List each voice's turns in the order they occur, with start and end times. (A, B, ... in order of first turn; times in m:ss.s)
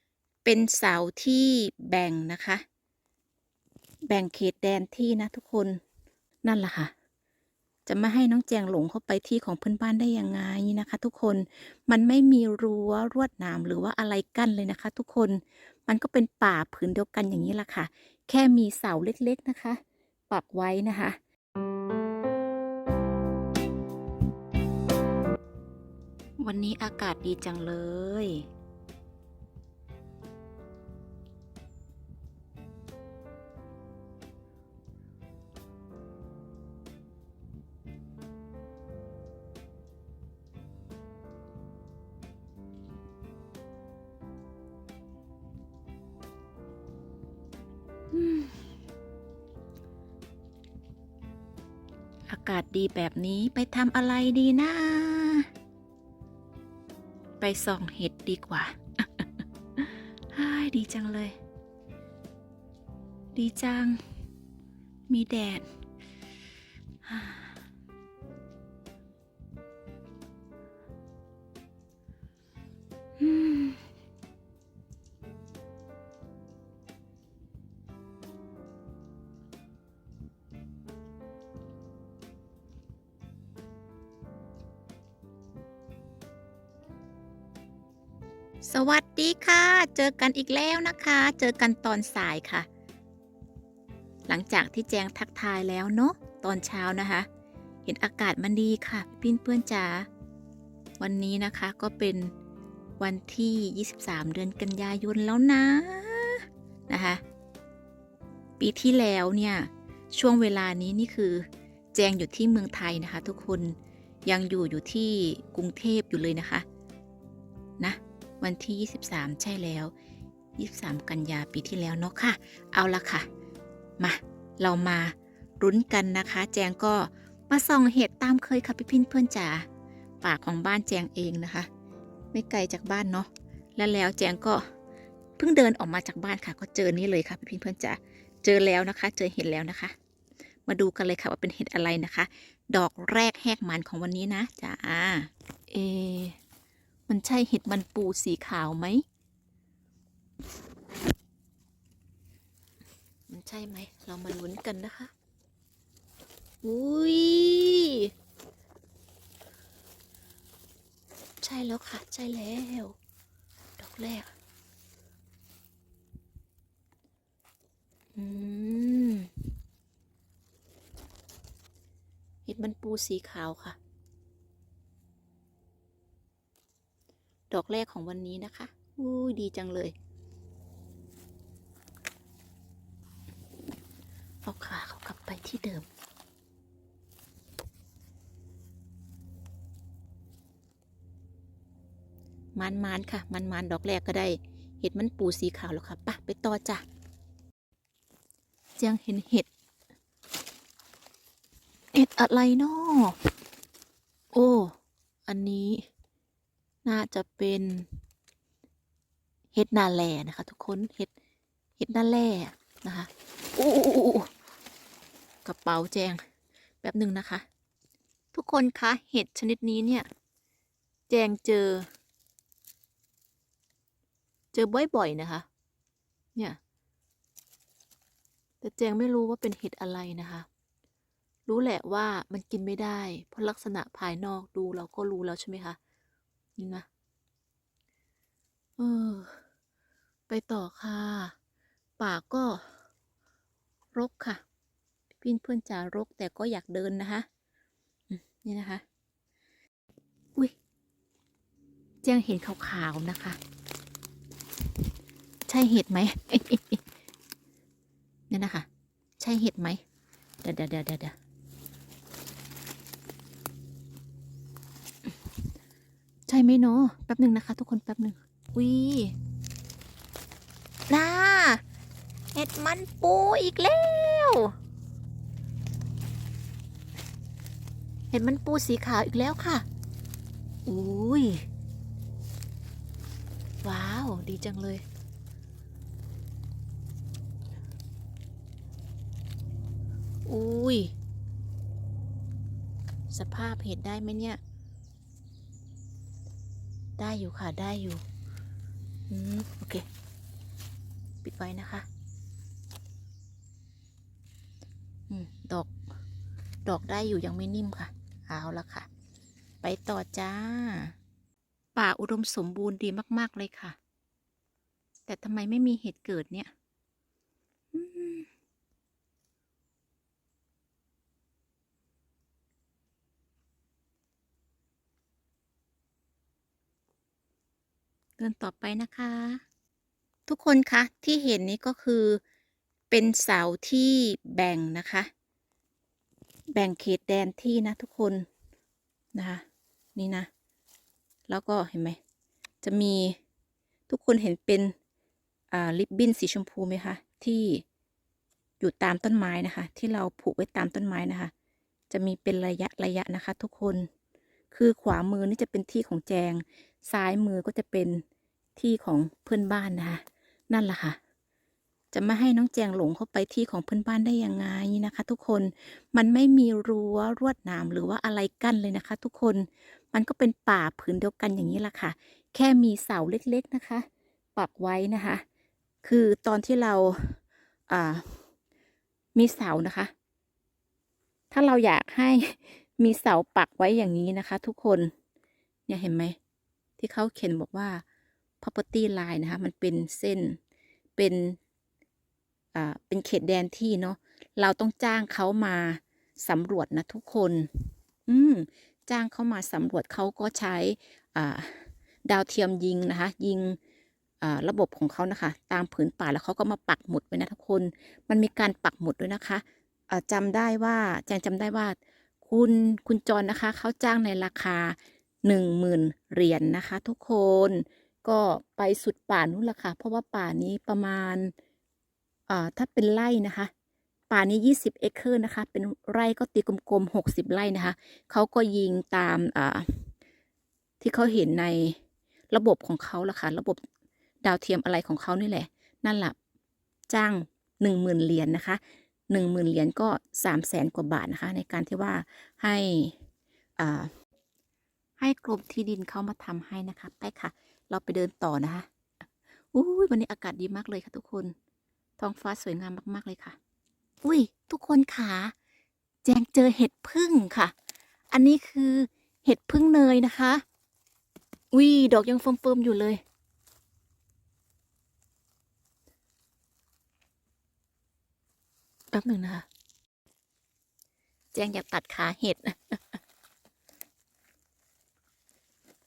0:00.4-0:02.6 A
0:04.1-0:05.8 A
0:06.4-0:06.9 A
0:07.9-0:21.2 A
0:26.4-0:28.4 A
0:48.1-0:48.6 A
0:52.3-0:55.4 A
0:57.4-1:01.3 A
1:03.3-1:04.0 A
1:05.1-1:05.7 A
1:07.0-1:07.6 A
1:13.2-1:13.8 A
1:28.6-1:32.7 A
1:34.3-1:37.3 A
1:37.8-1:40.1 A
1:41.0-1:42.3 A
1:43.0-1:47.2 A
1:48.6-1:56.6 A
1:57.8-1:59.9 A
2:00.6-2:03.3 A
2:04.0-2:09.7 A
2:10.2-2:11.7 A
2:12.3-2:14.6 A
2:15.4-2:19.9 A
2:20.7-2:26.4 A
2:27.1-2:29.0 A
2:33.3-2:35.1 A
2:36.6-2:38.1 A
2:41.4-2:43.0 A
2:43.8-2:44.3 A
2:48.1-2:49.4 A
2:52.4-2:53.8 A
2:57.5-2:59.9 A
3:04.4-3:05.9 A
3:12.6-3:16.8 A
3:18.8-3:19.5 A
3:21.9-3:23.2 A
3:24.3-3:24.8 A
3:25.3-3:25.8 A
3:26.8-3:27.9 A
3:29.5-3:31.1 A
3:31.8-3:34.3 A
3:35.4-3:36.2 A
3:36.8-3:37.4 A
3:38.3-3:40.1 A
3:41.1-3:41.9 A
3:44.5-3:45.4 A
3:48.6-3:50.5 A
3:51.5-3:55.8 A
3:56.6-3:56.8 A
3:58.8-3:59.4 A
4:00.3-4:01.3 A
4:02.0-4:02.7 A
4:03.9-4:04.4 A
4:05.2-4:07.2 A
4:08.1-4:08.8 A
4:12.0-4:13.4 A
4:15.5-4:16.8 A
4:18.3-4:18.7 A
4:19.2-4:19.8 A
4:20.4-4:21.2 A
4:26.3-4:29.2 A
4:30.9-4:31.6 A
4:32.3-4:34.5 A
4:38.1-4:39.7 A
4:40.6-4:41.5 A
4:43.6-4:44.8 A
4:50.2-4:50.9 A
4:53.1-4:54.4 A
4:57.0-4:58.0 A
4:59.1-4:59.8 A
5:01.2-5:01.9 A
5:05.1-5:05.8 A
5:06.6-5:08.9 A
5:09.6-5:10.9 A
5:11.8-5:13.8 A
5:15.1-5:16.5 A
5:17.7-5:18.3 A
5:28.2-5:29.4 A
5:30.3-5:32.2 A
5:32.9-5:35.1 A
5:36.5-5:38.2 A
5:39.1-5:39.4 A
5:40.0-5:40.3 A
5:41.3-5:42.0 A
5:42.6-5:43.2 A
5:43.9-5:44.7 A
5:45.5-5:47.6 A
5:48.6-5:51.3 A
5:51.9-5:53.9 A
5:54.5-5:58.0 A
5:58.6-6:01.0 A
6:01.9-6:15.2 A
6:15.8-6:18.2 A
6:19.2-6:19.9 A
6:21.3-6:24.9 A
6:25.7-6:26.2 A
6:26.8-6:27.8 A
6:28.4-6:30.4 A
6:31.0-6:31.4 A
6:32.5-6:43.6 A
6:44.2-7:01.3 A
7:02.3-7:03.5 A
7:04.1-7:09.9 A
7:10.8-7:11.8 A
7:12.3-7:13.6 A
7:14.2-7:16.2 A
7:16.9-7:23.0 A
7:23.6-7:23.9 A
7:25.0-7:28.7 A
7:29.5-7:31.4 A
7:32.0-7:33.4 A
7:34.0-7:35.3 A
7:36.0-7:37.5 A
7:38.1-7:40.4 A
7:41.5-7:43.0 A
7:48.9-7:49.5 A
7:51.3-7:53.0 A